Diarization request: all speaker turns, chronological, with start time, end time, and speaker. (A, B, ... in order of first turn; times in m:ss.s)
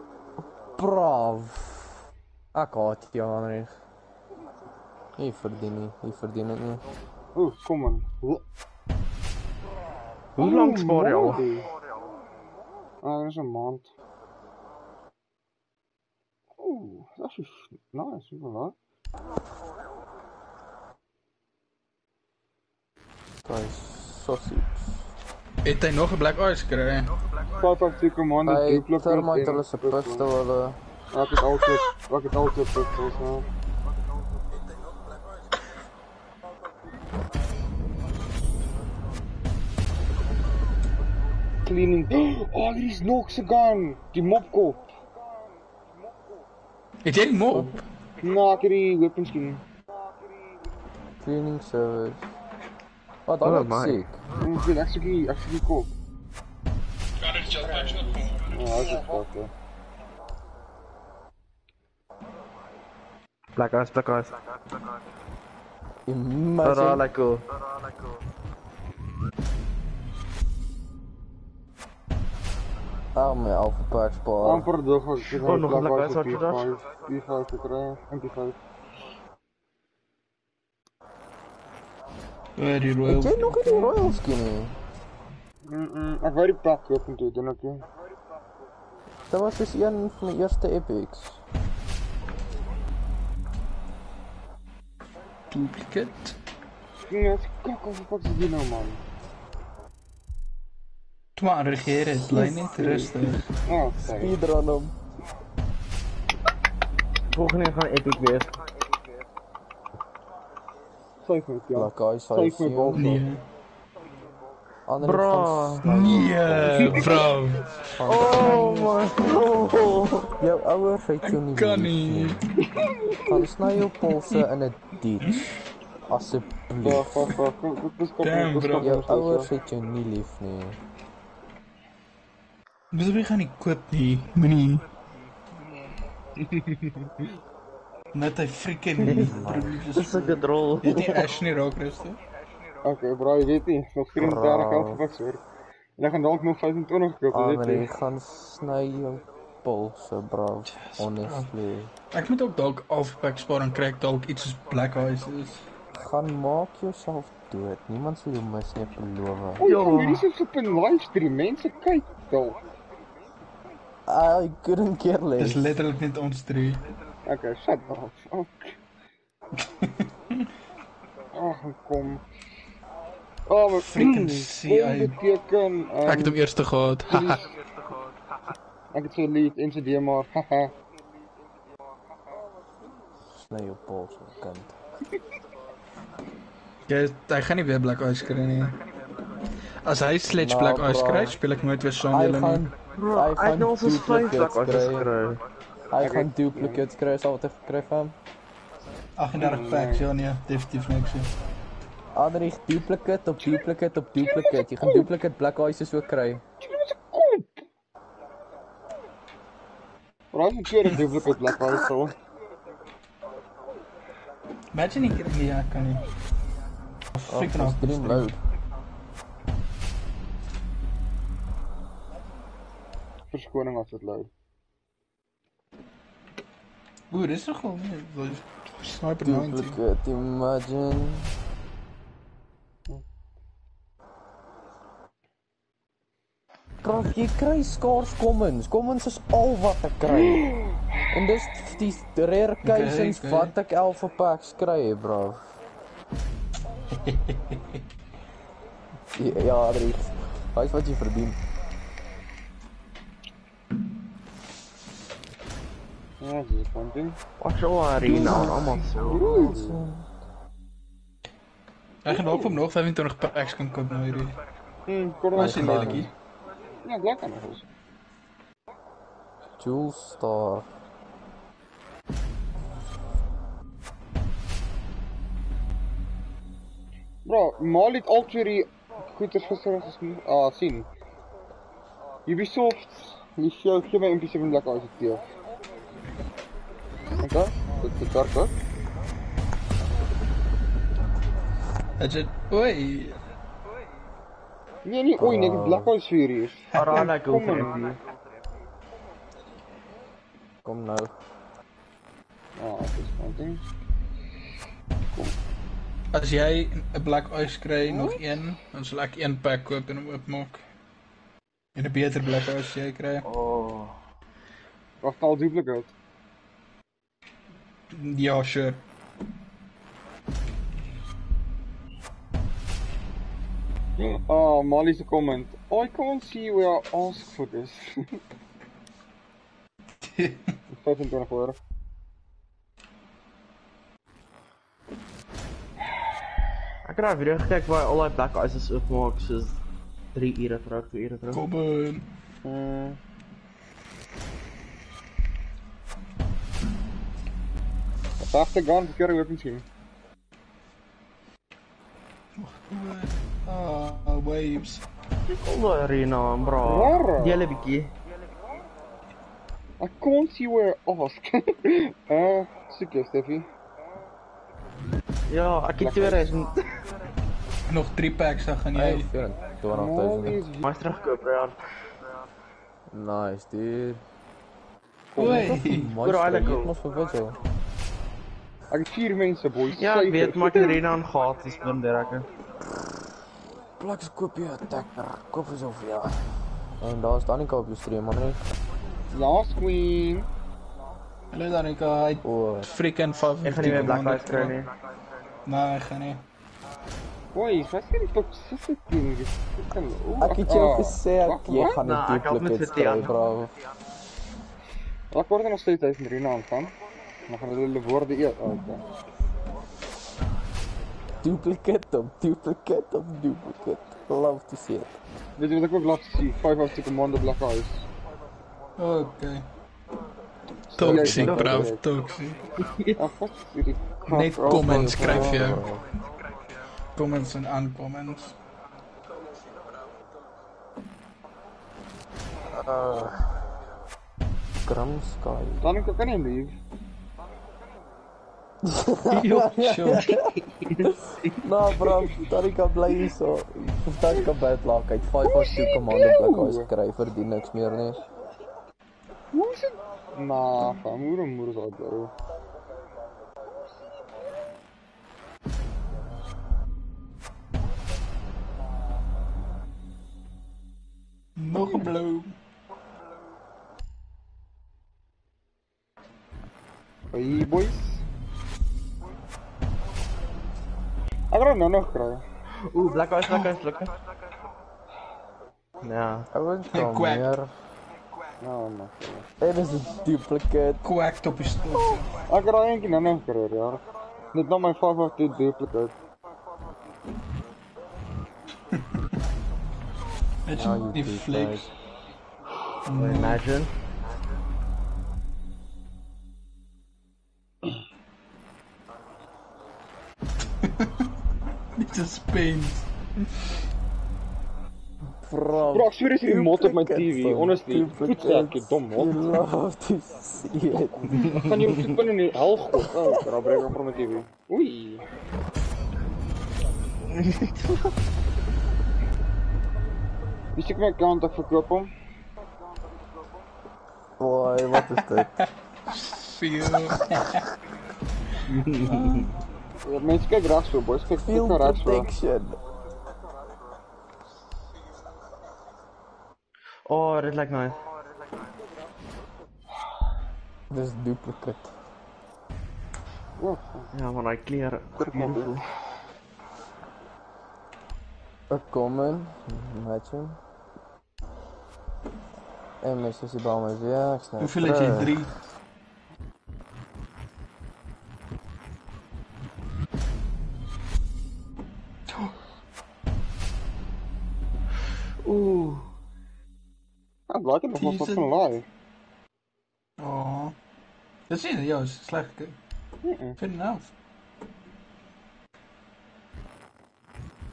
0:00.8-0:02.0 A
0:02.5-0:03.8 A
0:05.2-0:06.8 A
0:07.4-0:08.4 B
0:10.4-0:11.4 C
0:10.4-0:11.7 B
0:13.0-0:13.9 B
0:16.6-0:18.8 B
0:23.4-0:25.1 A
0:25.6-0:27.1 D
0:27.5-0:30.2 B
0:28.4-0:30.8 A
0:31.1-0:33.4 B
0:41.6-0:44.9 B
0:47.0-0:47.8 D
0:48.2-0:49.6 B
0:51.2-0:52.3 A
0:53.3-0:54.2 A
0:53.4-0:54.1 C
0:54.4-0:56.0 B
0:57.2-0:58.6 D
0:58.5-0:59.5 B
1:03.6-1:04.4 C
1:06.1-1:07.0 A
1:06.6-1:07.5 C
1:13.2-1:14.7 A
1:14.4-1:18.6 B
1:15.4-1:16.8 C
1:22.6-1:24.2 D
1:23.0-1:24.8 A
1:25.7-1:27.9 B
1:29.3-1:31.4 A
1:35.5-1:36.4 D
1:37.1-1:39.0 B
1:41.4-1:43.5 D
1:42.4-1:43.1 A
1:43.6-1:44.4 B
1:44.0-1:45.0 A
1:47.3-1:48.5 C
1:51.2-1:53.2 B
1:51.8-1:53.2 A
1:53.0-1:53.4 D
1:54.9-1:57.3 A
1:55.0-1:56.0 C
1:55.9-1:57.7 D
1:57.9-1:58.9 A
1:58.1-2:00.4 C
2:00.3-2:02.4 A
2:01.2-2:02.4 D
2:02.8-2:03.3 B
2:03.2-2:05.4 A
2:05.2-2:05.5 D
2:06.1-2:07.3 A
2:06.8-2:09.5 B
2:08.2-2:09.0 D
2:08.8-2:10.8 A
2:12.9-2:14.8 D
2:16.4-2:17.1 B
2:18.1-2:22.2 D
2:19.0-2:21.2 C
2:19.0-2:19.8 A
2:22.8-2:25.4 B
2:24.2-2:25.0 A
2:26.0-2:27.9 B
2:27.3-2:31.9 A
2:30.8-2:31.5 D
2:32.1-2:35.7 D
2:35.9-2:39.6 A
2:39.6-2:42.6 B
2:39.6-2:40.2 C
2:44.1-2:45.8 A
2:45.4-2:46.8 D
2:47.2-2:48.8 B
2:49.7-2:50.5 D
2:51.3-2:52.2 B
2:53.5-2:56.4 B
2:53.9-2:55.2 D
2:56.1-2:57.4 D
2:57.1-2:57.4 B
2:58.9-3:00.7 B
3:03.4-3:04.8 A
3:06.9-3:08.8 D
3:09.8-3:12.6 D
3:10.4-3:11.4 A
3:12.1-3:15.1 A
3:13.0-3:15.4 C
3:15.9-3:18.1 A
3:16.0-3:16.8 B
3:19.2-3:21.3 D
3:19.4-3:20.1 B
3:22.1-3:26.4 A
3:24.2-3:25.1 B
3:26.6-3:27.6 B
3:30.3-3:32.1 B
3:34.7-3:36.1 D
3:37.1-3:38.3 D
3:37.3-3:38.4 A
3:43.3-3:44.3 B
3:47.1-3:49.8 D
3:49.2-3:51.4 A
3:56.8-4:00.5 A
4:01.1-4:05.6 A
4:02.6-4:03.5 D
4:06.9-4:07.8 D
4:09.1-4:11.4 A
4:16.2-4:17.2 B
4:17.4-4:19.6 C
4:18.0-4:20.1 A
4:18.1-4:19.8 B
4:22.0-4:24.4 D
4:24.9-4:26.1 B
4:25.3-4:26.1 D
4:25.4-4:26.1 A
4:26.8-4:27.7 B
4:29.6-4:30.7 A
4:37.2-4:40.9 B
4:42.2-4:45.2 B
4:47.2-4:48.5 B
4:52.0-4:53.2 D
4:54.8-4:57.8 B
4:55.2-4:55.9 A
4:56.7-4:57.1 D
4:56.7-4:58.0 C
5:00.6-5:01.1 A
5:02.6-5:03.6 B
5:05.1-5:05.4 B
5:06.1-5:10.6 D
5:07.8-5:08.2 B
5:11.8-5:13.2 D
5:13.2-5:14.0 C
5:15.0-5:16.0 B
5:17.9-5:18.8 D
5:24.0-5:28.1 B
5:30.0-5:30.5 D
5:30.7-5:31.6 B
5:36.8-5:39.6 C
5:40.1-5:41.4 C
5:41.3-5:42.1 D
5:42.4-5:43.0 B
5:48.2-5:49.6 B
5:52.4-5:54.8 D
5:55.3-5:57.9 C
5:56.6-5:57.4 B
5:59.8-6:03.5 B
6:05.3-6:06.8 C
6:05.8-6:06.3 B
6:07.7-6:09.1 D
6:08.7-6:10.4 A
6:09.7-6:10.8 B
6:10.6-6:11.6 C
6:12.9-6:14.0 A
6:15.1-6:17.4 A
6:15.2-6:15.9 D
6:15.2-6:15.5 B
6:16.0-6:16.7 C
6:18.7-6:20.8 B
6:19.8-6:22.3 C
6:23.8-6:26.2 A
6:26.8-6:28.5 A
6:29.1-6:30.3 B
6:31.3-6:34.6 D
6:32.2-6:32.7 A
6:33.4-6:34.7 C
6:35.5-6:36.2 D
6:37.3-6:41.8 B
6:40.2-6:43.5 A
6:41.6-6:43.1 C
6:45.1-6:46.8 B
6:47.3-6:48.8 B
6:51.2-6:55.0 A
6:55.4-6:57.9 B
6:58.8-6:59.5 D
7:00.7-7:01.8 B
7:00.8-7:02.4 D
7:00.9-7:01.7 A
7:01.1-7:01.5 C
7:02.6-7:03.0 C
7:03.0-7:05.5 B
7:04.1-7:05.6 D
7:04.4-7:05.9 A
7:07.0-7:08.4 D
7:12.6-7:13.1 A
7:14.6-7:15.6 A
7:15.6-7:16.6 B
7:18.6-7:20.3 A
7:19.1-7:20.2 D
7:19.8-7:21.4 C
7:20.8-7:28.1 A
7:25.2-7:26.7 B
7:29.3-7:32.1 B
7:41.4-7:42.4 D
7:47.1-7:48.0 B
7:51.3-7:52.2 B
7:52.6-7:53.9 C
7:55.8-7:56.3 C
7:56.3-7:57.5 A
7:56.7-7:57.3 D
7:58.4-7:59.3 B
7:59.4-8:00.8 A
8:00.8-8:02.1 D
8:02.3-8:06.0 B
8:10.4-8:11.7 D
8:10.5-8:11.6 A
8:12.9-8:13.4 D
8:12.9-8:13.7 C
8:20.6-8:20.9 D
8:21.8-8:23.3 D
8:25.2-8:31.3 A
8:25.7-8:29.2 B
8:31.1-8:31.5 C
8:31.3-8:35.0 B
8:32.7-8:33.2 A
8:37.1-8:37.9 C
8:40.6-8:41.9 B
8:44.2-8:45.3 A
8:45.2-8:47.5 D
8:46.7-8:47.0 A
8:48.5-8:49.3 C
8:48.9-8:49.3 A
8:49.8-8:52.1 B
8:51.1-8:52.6 A
8:56.9-8:57.8 C
9:00.7-9:01.7 A
9:03.4-9:03.9 B
9:03.9-9:05.6 C
9:05.0-9:05.6 B
9:08.5-9:10.4 A
9:12.8-9:15.3 A
9:14.4-9:15.3 D
9:25.2-9:25.9 C
9:27.3-9:28.7 B
9:27.8-9:28.3 D
9:30.0-9:30.6 D
9:31.3-9:32.6 D
9:33.0-9:33.4 B
9:33.4-9:33.9 D